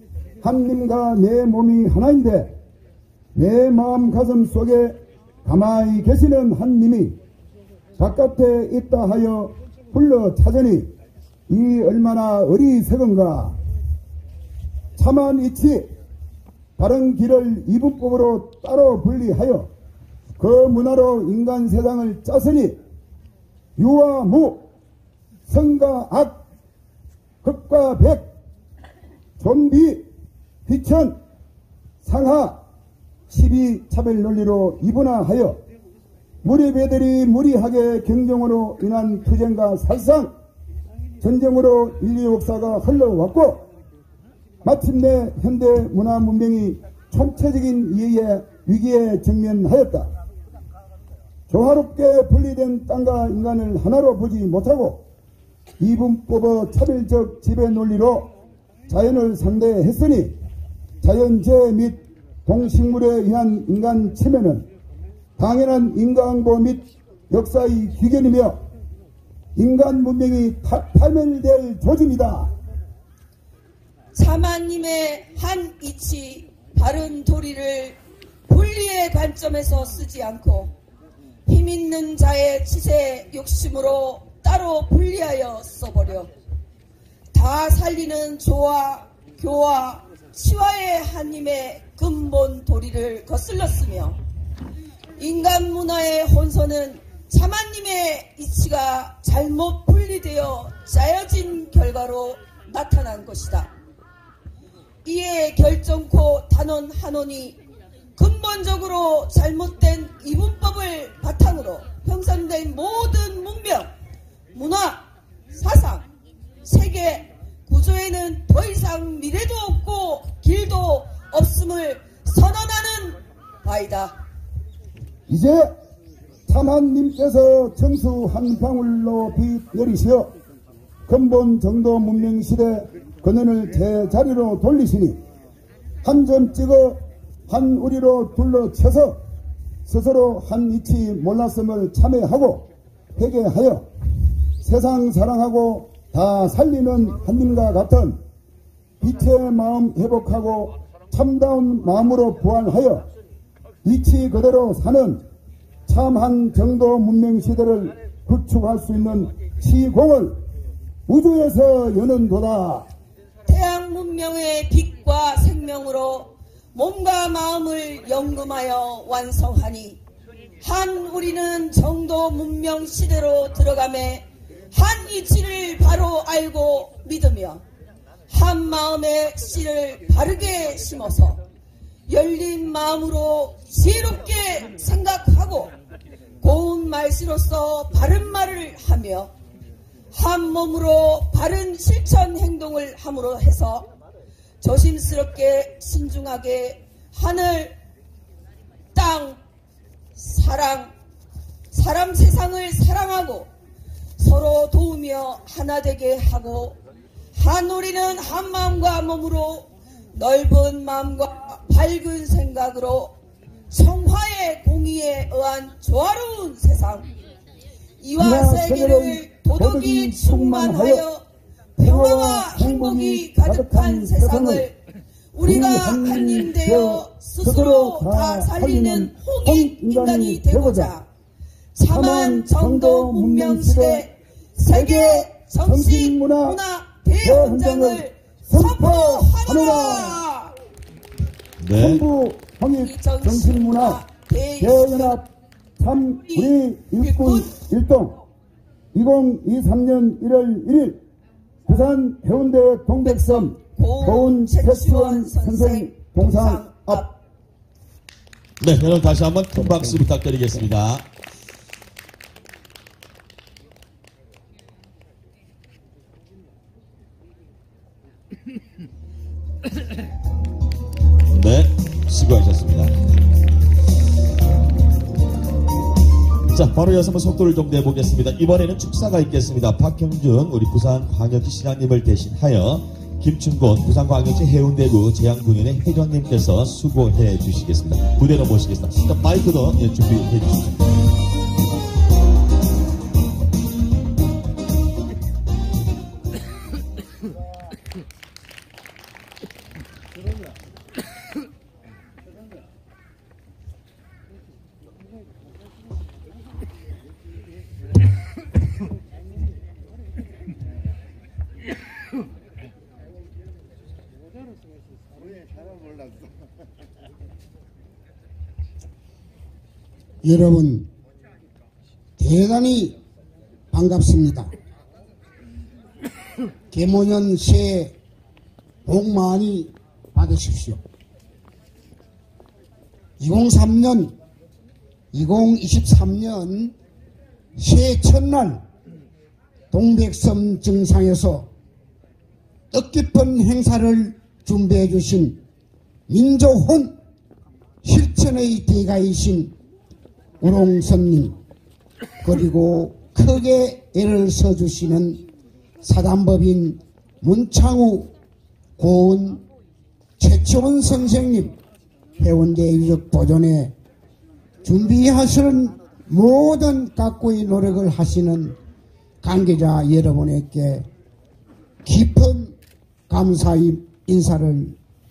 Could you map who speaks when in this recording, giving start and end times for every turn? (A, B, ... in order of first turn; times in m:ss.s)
0:00.4-0:02.5 A
0:03.3-0:07.2 A
0:08.0-0:10.9 A
0:11.5-0:13.6 A
0:15.0-0:15.9 A
0:16.8-0:19.7 A
0:20.4-0:22.8 A
0:23.8-0:24.7 A
0:25.5-0:26.4 A
0:27.4-0:28.3 A
0:29.4-0:30.0 A
0:30.7-0:31.2 A
0:32.0-0:32.6 A
0:33.3-0:35.6 A
0:36.4-0:40.3 A
0:41.2-0:43.6 A
0:44.6-0:50.1 A
0:51.5-0:55.0 A
0:55.8-0:58.3 A
0:58.9-1:00.3 A
1:01.0-1:04.7 A
1:05.4-1:08.6 A
1:09.6-1:12.5 A
1:14.1-1:20.7 B
1:21.4-1:26.3 B
1:27.3-1:34.2 B
1:35.2-1:43.7 B
1:45.0-1:47.6 B
1:48.2-1:53.9 B
1:54.5-1:56.0 B
1:56.6-2:04.1 B
2:05.3-2:05.7 A
2:06.5-2:10.3 A
2:11.1-2:15.2 A
2:16.0-2:19.2 A
2:19.8-2:23.9 A
2:24.6-2:28.2 A
2:29.0-2:33.1 A
2:33.8-2:35.2 A
2:35.9-2:40.4 A
2:41.1-2:42.9 A
2:43.4-2:50.0 B
2:50.6-2:57.6 B
2:58.3-3:01.4 B
3:02.1-3:05.7 B
3:06.4-3:09.3 B
3:10.1-3:13.9 B
3:14.6-3:17.7 B
3:18.9-3:19.4 B
3:20.2-3:20.9 B
3:21.7-3:23.5 B
3:24.2-3:26.8 B
3:27.4-3:33.1 B
3:33.7-3:37.1 B
3:38.0-3:41.2 B
3:38.2-3:41.0 A
3:41.8-3:44.8 B
3:41.8-3:44.6 A
3:45.3-3:51.1 B
3:45.4-3:51.0 A
3:51.7-4:00.5 B
3:51.9-3:54.1 A
3:54.7-3:56.6 A
3:57.2-4:00.2 A
4:01.6-4:02.0 C
4:01.8-4:04.0 A
4:02.8-4:05.2 B
4:04.6-4:05.3 A
4:05.8-4:08.2 A
4:06.3-4:07.6 B
4:08.9-4:11.0 A
4:11.6-4:17.0 A
4:13.0-4:17.1 B
4:18.6-4:21.0 C
4:31.3-4:32.9 C
4:36.5-4:50.9 C
5:20.2-5:20.9 D
5:22.2-5:23.0 D
5:23.7-5:24.5 D
5:26.7-5:27.9 D
5:28.8-5:30.8 D
5:33.2-5:34.1 D
5:35.1-5:36.7 D
5:37.6-5:38.6 D
5:39.7-5:41.5 D
5:42.7-5:45.4 D
5:46.1-5:46.9 D
5:47.8-5:49.5 D
5:50.4-5:51.4 D
5:52.2-5:55.2 D
5:55.8-5:58.1 D
5:58.8-5:59.4 D
6:00.2-6:01.6 D
6:02.2-6:03.7 D
6:04.6-6:08.6 D
6:09.2-6:10.9 D
6:11.8-6:12.5 D
6:13.1-6:14.8 D